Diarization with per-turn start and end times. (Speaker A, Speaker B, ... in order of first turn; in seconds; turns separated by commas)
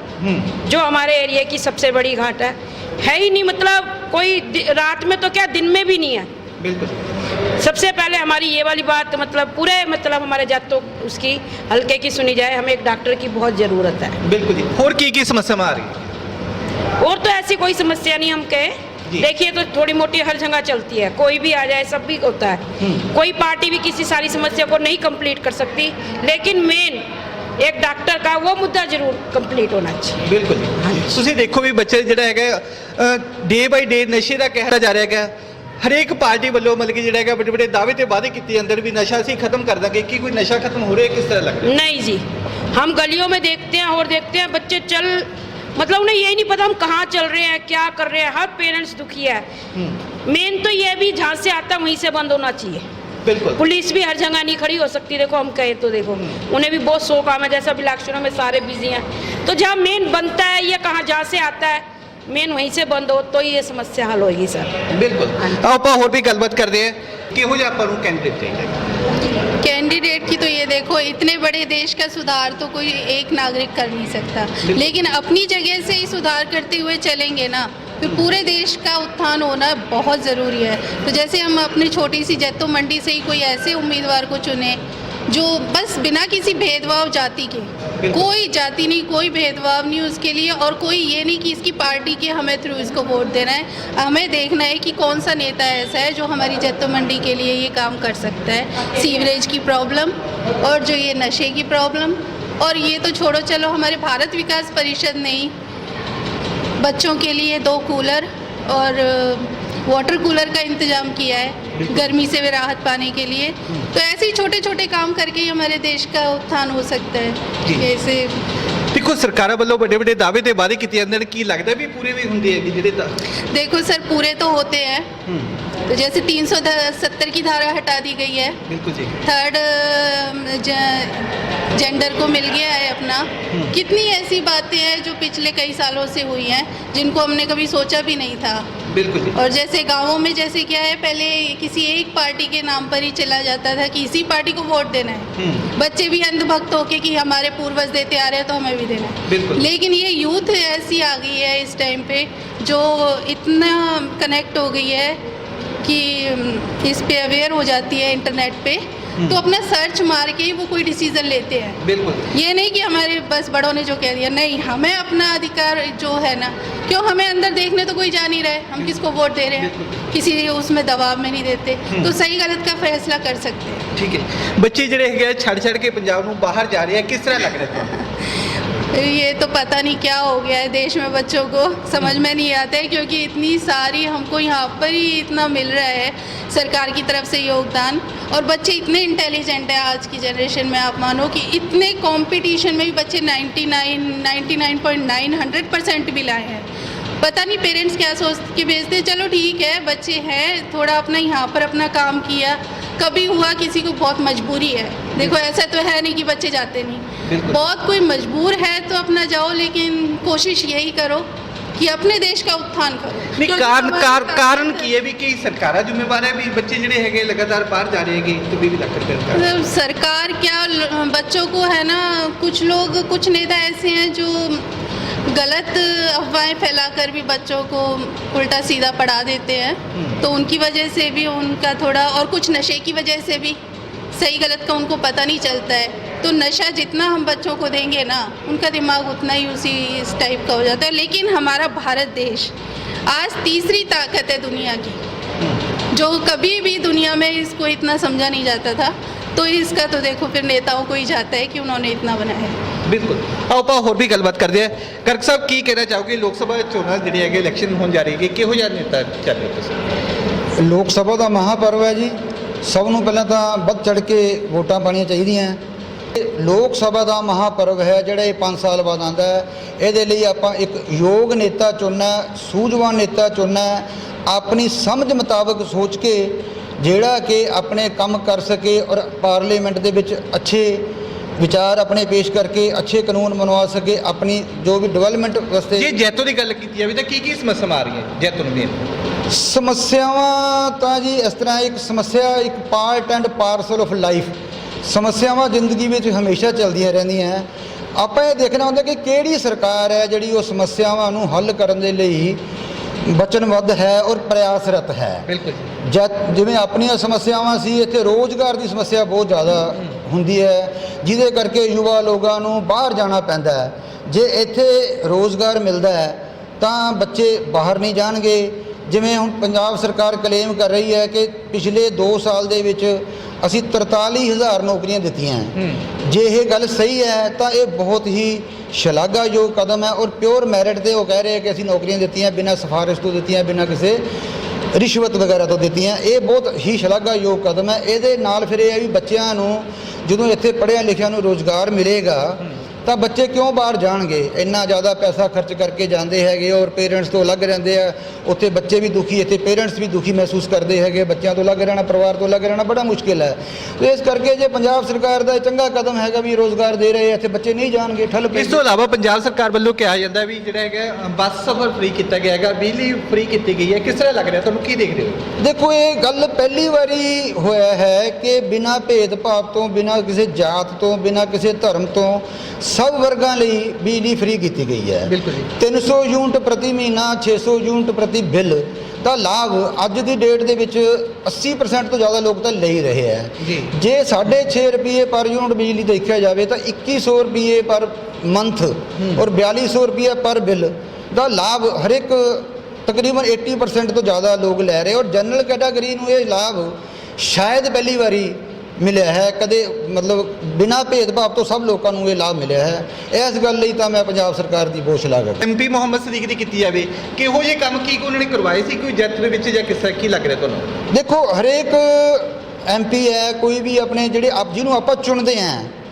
Speaker A: 0.2-0.5, Speaker B: 0.6-6.3, Speaker A: 6.6-7.0, Speaker B: 7.6-14.2, Speaker A: 14.2-16.1, Speaker B: 17.0-27.1, Speaker B: 27.6-30.2, Speaker A: 30.2-41.7, Speaker B: 41.6-49.4, Speaker B: 50.2-52.8, Speaker A: 53.2-53.6, Speaker B: 53.5-64.8, Speaker A: 64.9-68.7, Speaker C: 69.3-105.5, Speaker A: 74.6-74.9, Speaker C: 106.8-118.4, Speaker A: 118.9-123.1, Speaker C: 123.5-125.1, Speaker A: 125.3-125.5, Speaker C: 125.9-128.6, Speaker A: 128.7-129.2, Speaker C: 129.2-138.7, Speaker A: 138.9-139.3, Speaker C: 139.3-155.2, Speaker A: 145.4-145.7, Speaker A: 149.3-149.7, Speaker C: 155.8-161.8, Speaker A: 161.8-162.3, Speaker C: 162.3-173.8, Speaker A: 169.6-169.9, Speaker A: 173.9-177.9, Speaker C: 178.9-196.7, Speaker C: 197.2-211.2, Speaker A: 207.2-207.6, Speaker C: 211.8-214.9, Speaker A: 213.3-219.4, Speaker C: 219.3-224.6, Speaker C: 225.3-233.6, Speaker C: 234.1-242.5, Speaker C: 243.1-245.0, Speaker C: 245.9-252.6, Speaker A: 252.8-259.8, Speaker D: 260.6-265.6, Speaker D: 266.1-285.9, Speaker A: 285.7-288.8, Speaker D: 289.3-302.4, Speaker D: 303.0-305.2, Speaker A: 305.3-305.6, Speaker D: 305.8-334.0, Speaker D: 334.7-358.6, Speaker A: 358.3-365.2, Speaker D: 365.4-405.4, Speaker A: 375.1-375.5, Speaker A: 383.4-383.7, Speaker A: 405.4-410.7, Speaker D: 410.9-415.7